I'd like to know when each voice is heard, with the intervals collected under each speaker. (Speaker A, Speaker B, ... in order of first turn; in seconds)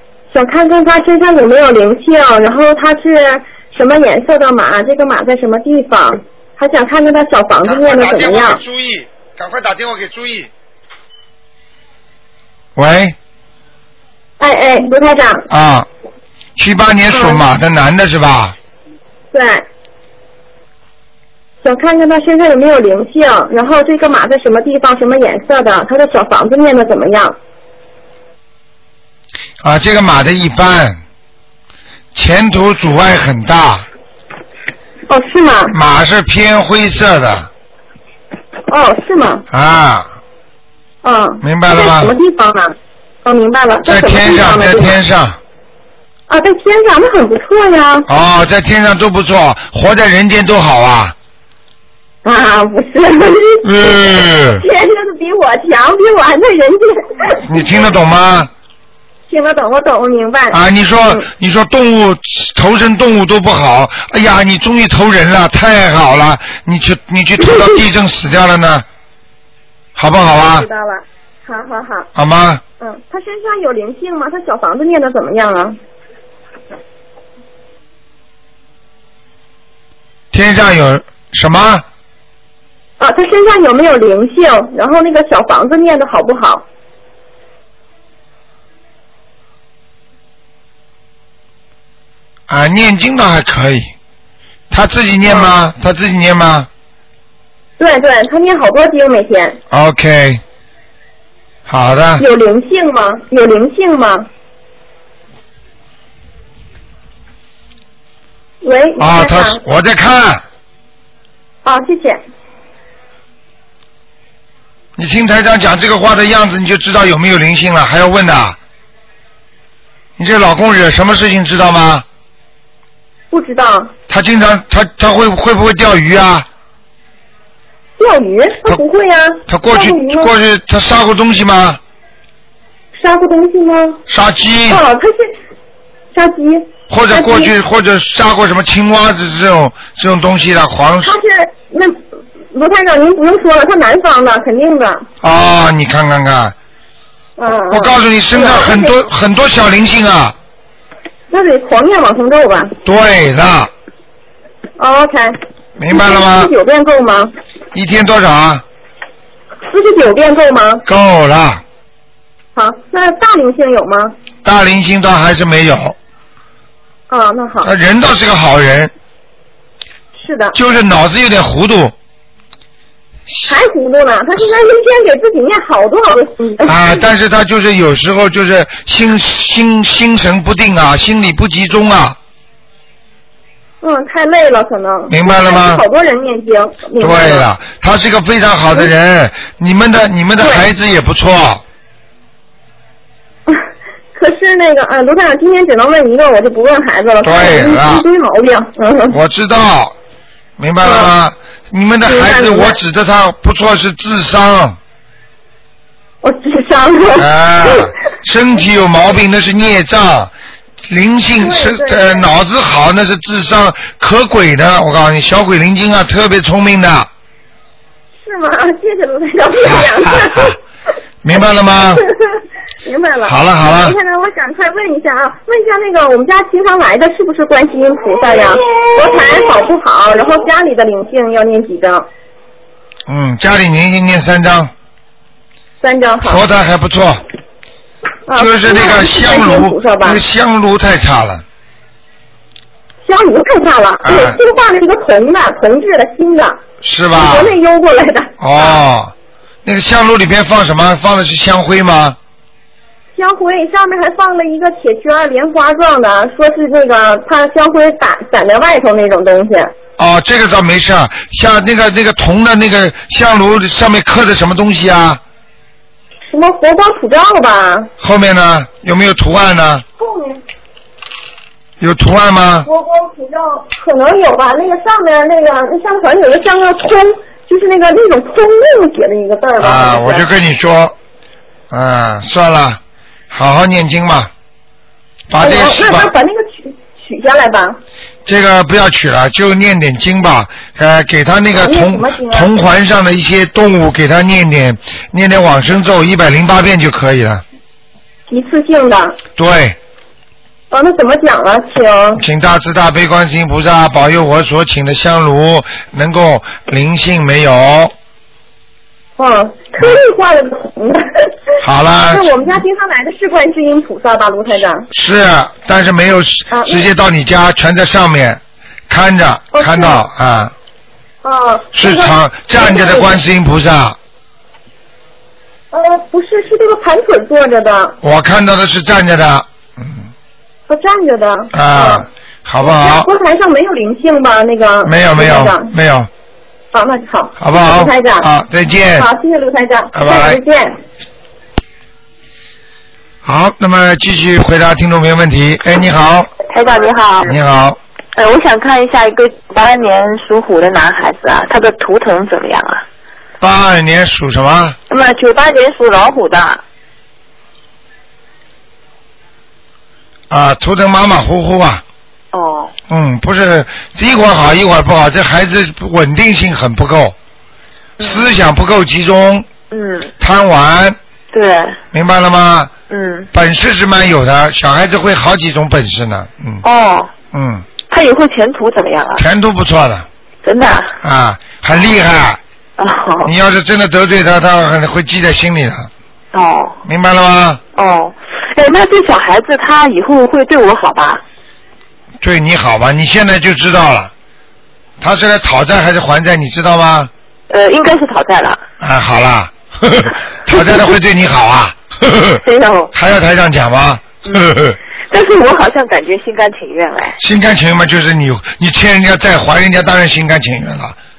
Speaker A: 0.3-8.6, 14.4-15.5, 17.1-17.4, 19.3-19.6, 21.6-27.4, 35.1-35.8, 38.7-39.4, 41.0-45.0, 46.3-48.1, 52.2-57.6, 59.3-61.2, 70.3-72.1, 72.8-75.8, 83.0-86.6, 95.2-95.5, 97.8-99.6, 102.2-104.3, 108.6-109.6, 111.6-112.2, 123.3-123.9, 128.0-130.3, 132.9-134.0, 134.7-135.3, 136.1-137.5, 141.0-142.0, 142.5-145.1, 147.4-148.9, 151.3-152.7, 154.8-155.4, 155.9-157.3, 159.6-160.8, 162.5-164.1, 167.1-167.7, 170.2-170.6, 173.5-177.1, 183.8-187.5, 190.4-190.7, 194.1-199.2, 200.8-201.1, 202.0-202.8, 206.2-207.9, 211.4-212.3, 218.2-220.6, 222.8-232.1, 235.8-236.4, 238.3-240.2, 243.0-246.6, 247.1-248.8, 253.1-259.7, 266.2-267.9, 270.0-270.4, 272.6-280.3, 285.4-287.8, 291.6-292.5, 298.3-299.2, 300.7-302.2, 309.2-311.3, 312.1-314.9, 316.5-316.9, 319.5-320.0, 321.2-323.2, 325.7-328.0, 330.7-332.1, 332.6-335.7, 336.7-338.3, 338.9-340.8
Speaker B: 7.6-10.5, 12.8-13.2, 15.5-15.9, 16.6-18.6, 29.6-31.0, 32.1-33.9, 35.7-37.5, 39.5-40.1, 41.4-42.1, 43.8-45.4, 48.1-51.1, 53.6-54.6, 57.4-58.5, 60.5-68.8, 70.0-70.7, 72.1-72.6, 80.3-81.8, 92.5-93.9, 94.7-96.7, 99.7-100.4, 101.7-102.2, 109.0-110.4, 115.0-118.6, 120.2-122.0, 124.1-126.5, 129.5-131.8, 134.1-134.8, 136.9-141.2, 145.2-146.5, 147.7-150.3, 152.8-153.7, 155.8-156.5, 157.7-158.6, 160.8-161.6, 164.4-165.9, 167.6-168.9, 170.5-171.9, 173.3-173.6, 176.6-182.2, 185.1-185.8, 187.0-191.6, 197.2-198.0, 199.1-199.9, 200.6-204.8, 207.2-210.3, 210.9-217.1, 219.6-220.6, 221.2-222.0, 223.2-223.9, 233.1-234.7, 236.2-237.2, 238.4-241.4, 244.0-244.4, 246.8-247.6, 248.4-249.1, 249.6-252.2, 260.0-265.2, 268.0-269.8, 271.8-272.7, 279.6-280.9, 281.7-282.8, 283.3-284.3, 285.3-286.1, 288.2-297.4, 299.4-299.8, 302.2-307.9, 311.6-312.5, 314.9-320.5, 321.7-324.0, 328.0-330.1, 331.5-333.1, 334.9-336.1, 337.4-339.1, 339.9-340.4, 343.2-346.3, 347.2-347.8, 353.4-354.8, 360.3-361.8, 362.9-367.1, 368.0-369.5, 370.2-371.0, 371.9-372.7, 373.3-376.6, 377.3-377.6, 379.2-380.1, 381.0-382.4, 383.2-385.9, 386.8-387.6, 392.2-394.1, 395.0-397.1, 398.8-402.4, 402.9-404.8, 407.2-410.9
Speaker C: 346.5-347.4, 348.1-352.8, 354.9-356.6, 362.3-362.7, 368.0-368.3, 369.7-370.1, 371.3-371.8, 372.9-373.3, 376.6-377.1, 377.9-379.2, 380.4-380.9, 382.8-383.3, 386.3-386.8, 387.8-391.2, 397.5-398.6, 400.5-400.8, 402.4-402.9, 404.2-404.5, 405.1-407.2